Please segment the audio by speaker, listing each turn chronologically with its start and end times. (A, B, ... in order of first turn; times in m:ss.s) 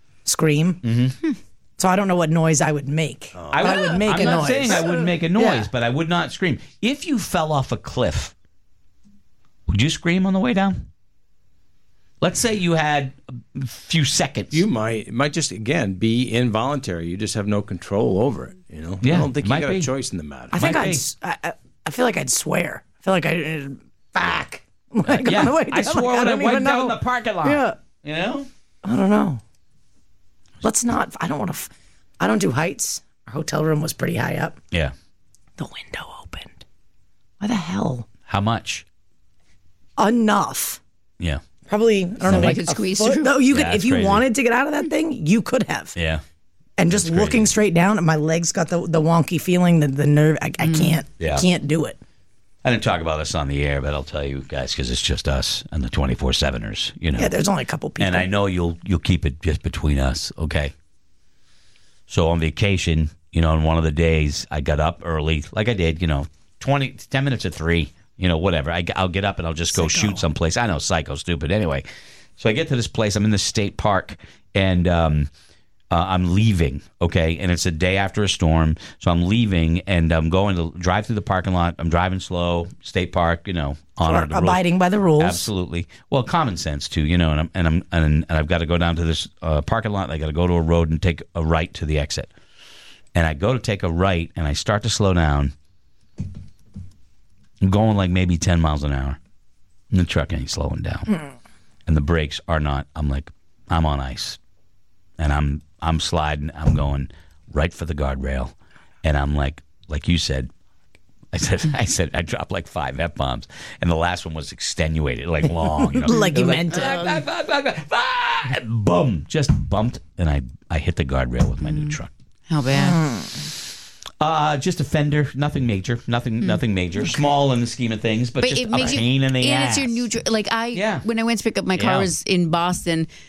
0:00.2-0:00.8 A
0:00.8-0:01.2 B
0:01.8-0:05.7 A
0:03.4-0:03.8 C
0:03.5-0:08.3 B
0:09.7-0:10.9 B
0:12.2-0:14.6 B
0:14.5-0:20.8 C
0:19.0-0:19.9 B
0:20.5-0:27.8 A
0:20.5-0:21.0 B
0:25.1-0:28.5 B
0:28.8-0:29.4 A
0:30.6-0:34.6 A
0:35.6-0:36.6 A
0:37.4-0:38.1 A
0:38.3-0:38.8 B
0:40.0-0:40.8 A
0:41.7-0:46.0 A
0:42.2-0:43.3 D
0:42.3-0:42.6 B
0:43.5-0:44.2 B
0:46.0-0:46.2 B
0:46.8-0:52.0 A
0:46.9-0:47.5 B
0:50.6-0:51.0 D
0:51.2-0:51.5 B
0:52.6-0:57.3 B
0:57.2-0:58.3 A
0:58.0-1:00.7 B
1:02.1-1:11.8 B
1:09.7-1:10.2 A
1:12.4-1:15.3 B
1:15.9-1:24.6 B
1:24.0-1:25.5 A
1:25.2-1:32.3 B
1:33.2-1:35.5 B
1:37.6-1:39.2 B
1:39.9-1:41.2 B
1:41.9-1:44.4 B
1:45.2-1:50.5 B
1:51.3-2:02.1 B
1:55.8-1:57.2 A
1:56.7-1:57.2 D
2:01.6-2:02.0 D
2:02.5-2:03.0 D
2:02.7-2:03.5 A
2:04.2-2:10.0 B
2:08.4-2:13.1 D
2:10.7-2:11.0 B
2:11.8-2:12.1 B